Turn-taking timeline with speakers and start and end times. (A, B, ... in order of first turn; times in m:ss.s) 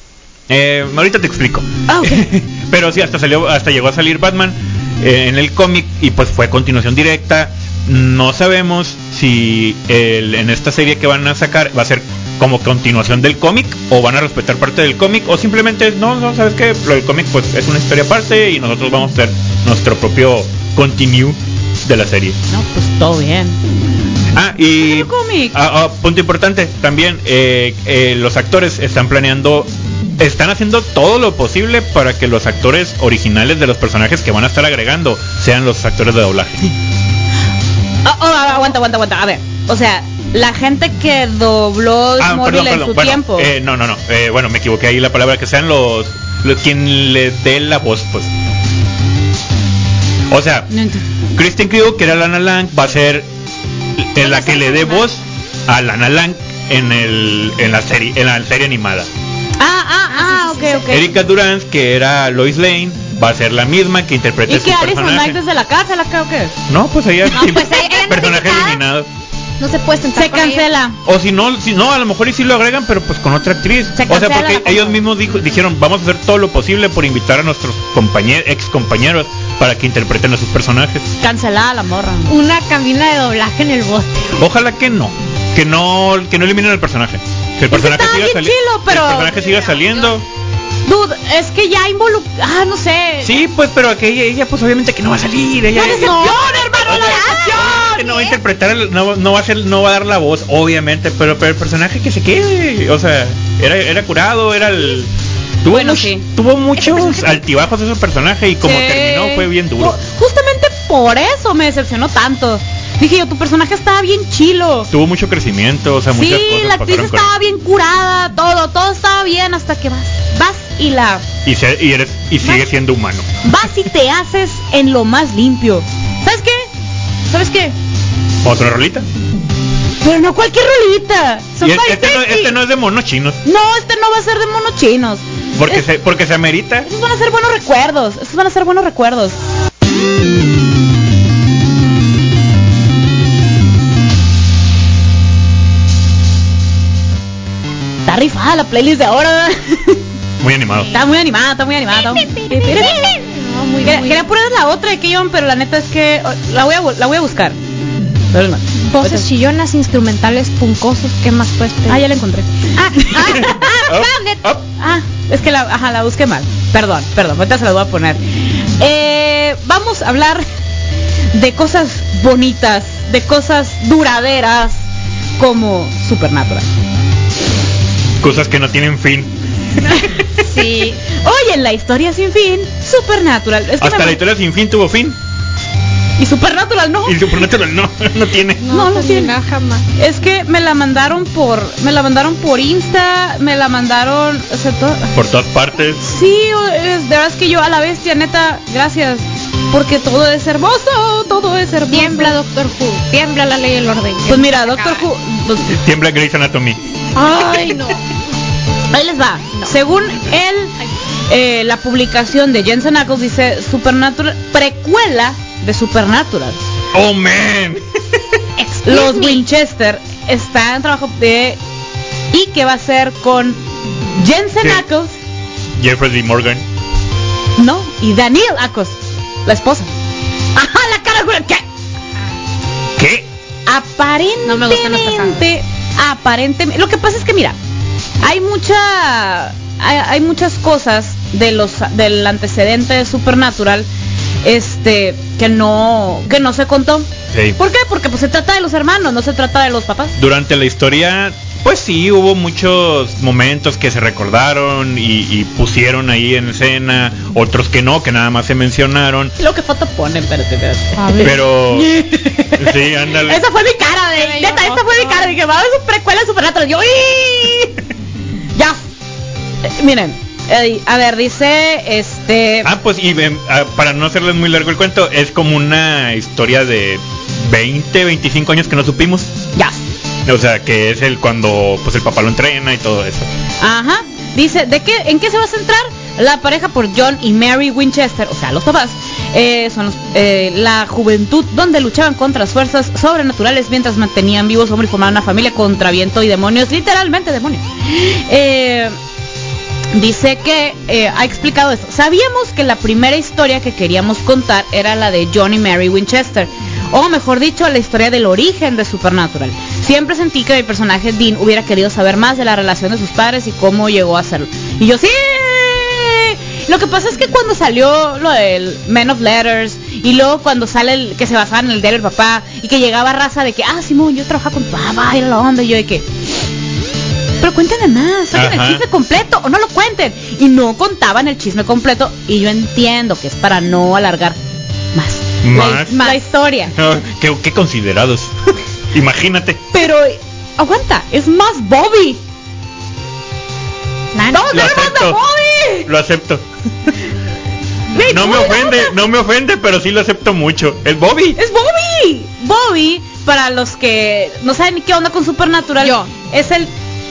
0:00.5-0:22.4 A
0:01.9-0:02.2 B
0:22.5-0:23.6 B
0:24.3-0:36.7 A
0:24.8-0:25.6 B
0:38.0-0:43.5 B
0:42.2-0:48.3 A
0:50.3-0:50.7 A
0:50.7-0:51.0 B
0:51.4-0:53.3 A
0:54.0-0:59.1 A
0:54.4-0:55.0 C
0:59.6-1:01.1 B
1:00.1-1:00.9 C
1:00.9-1:05.4 A
1:04.5-1:06.6 B
1:06.7-1:09.1 A
1:07.3-1:08.8 C
1:09.6-1:10.7 C
1:10.2-1:11.0 B
1:11.0-1:21.1 A
1:14.0-1:15.0 B
1:21.2-1:22.3 B
1:22.3-1:24.4 C
1:24.4-1:30.2 A
1:27.7-1:29.9 B
1:30.8-1:33.4 B
1:33.2-1:45.1 A
1:35.8-1:38.3 B
1:36.0-1:37.8 C
1:45.6-1:50.0 A
1:45.7-1:46.2 B
1:46.9-1:47.2 C
1:48.6-1:54.9 B
1:54.9-1:57.3 A
1:56.2-2:01.3 B
2:01.4-2:03.4 A
2:03.4-2:06.7 B
2:07.3-2:07.8 B
2:08.4-2:09.1 A
2:10.0-2:11.8 B
2:11.6-2:12.5 C
2:11.6-2:13.4 A
2:13.4-2:15.8 B
2:15.6-2:16.9 A
2:16.8-2:19.4 B
2:28.1-2:30.0 B
2:30.4-2:31.0 A
2:30.9-2:33.2 B
2:32.0-2:34.2 C
2:33.8-2:37.6 B
2:38.3-2:39.3 B
2:38.9-2:42.1 C
2:41.9-2:43.9 B
2:42.8-2:44.4 C
2:43.4-2:44.7 A
2:44.8-2:50.4 B
2:51.3-2:54.9 B
2:55.4-2:56.7 B
2:58.2-2:59.4 A
2:59.8-3:04.2 B
3:00.4-3:01.0 C
3:03.8-3:05.2 A
3:06.2-3:07.4 B
3:07.0-3:08.6 A
3:08.6-3:09.9 C
3:08.7-3:09.4 B
3:10.0-3:15.1 B
3:15.1-3:16.0 A
3:16.0-3:22.4 B
3:21.9-3:25.1 C
3:24.3-3:25.8 B
3:25.7-3:26.8 A
3:27.2-3:28.0 C
3:27.2-3:27.9 B
3:28.9-3:30.7 B
3:31.3-3:36.7 B
3:36.9-3:37.8 A
3:38.6-3:39.4 C
3:38.8-3:41.6 B
3:42.3-3:43.6 B
3:44.2-3:45.2 B
3:45.8-3:46.6 A
3:47.6-3:49.9 B
3:50.6-3:51.6 B
3:53.0-3:53.3 A
3:53.7-3:57.6 B
3:54.4-3:55.4 C
3:58.2-4:03.9 B
4:04.4-4:10.2 B
4:07.3-4:07.6 A
4:10.2-4:19.4 A
4:19.4-4:27.8 B
4:21.0-4:21.4 C
4:21.2-4:22.0 A
4:22.6-4:23.4 A
4:24.2-4:25.3 C
4:28.6-4:28.8 B
4:29.6-4:32.7 B
4:32.6-4:39.3 A
4:39.6-4:39.8 B
4:40.3-4:43.3 A
4:43.6-4:59.0 B
4:59.9-5:26.1 B
5:27.4-5:34.4 B
5:28.3-5:28.8 A
5:34.9-5:36.8 B
5:35.4-5:36.0 A
5:35.9-5:36.2 C
5:36.7-5:38.3 A
5:38.9-5:39.6 A
5:39.7-5:42.2 B
5:44.1-5:44.7 C
5:44.3-5:45.9 B
5:44.5-5:45.2 A
5:45.8-5:46.9 A
5:47.9-5:48.9 B
5:48.0-5:51.4 A
5:51.4-5:56.7 B
5:55.8-5:56.1 C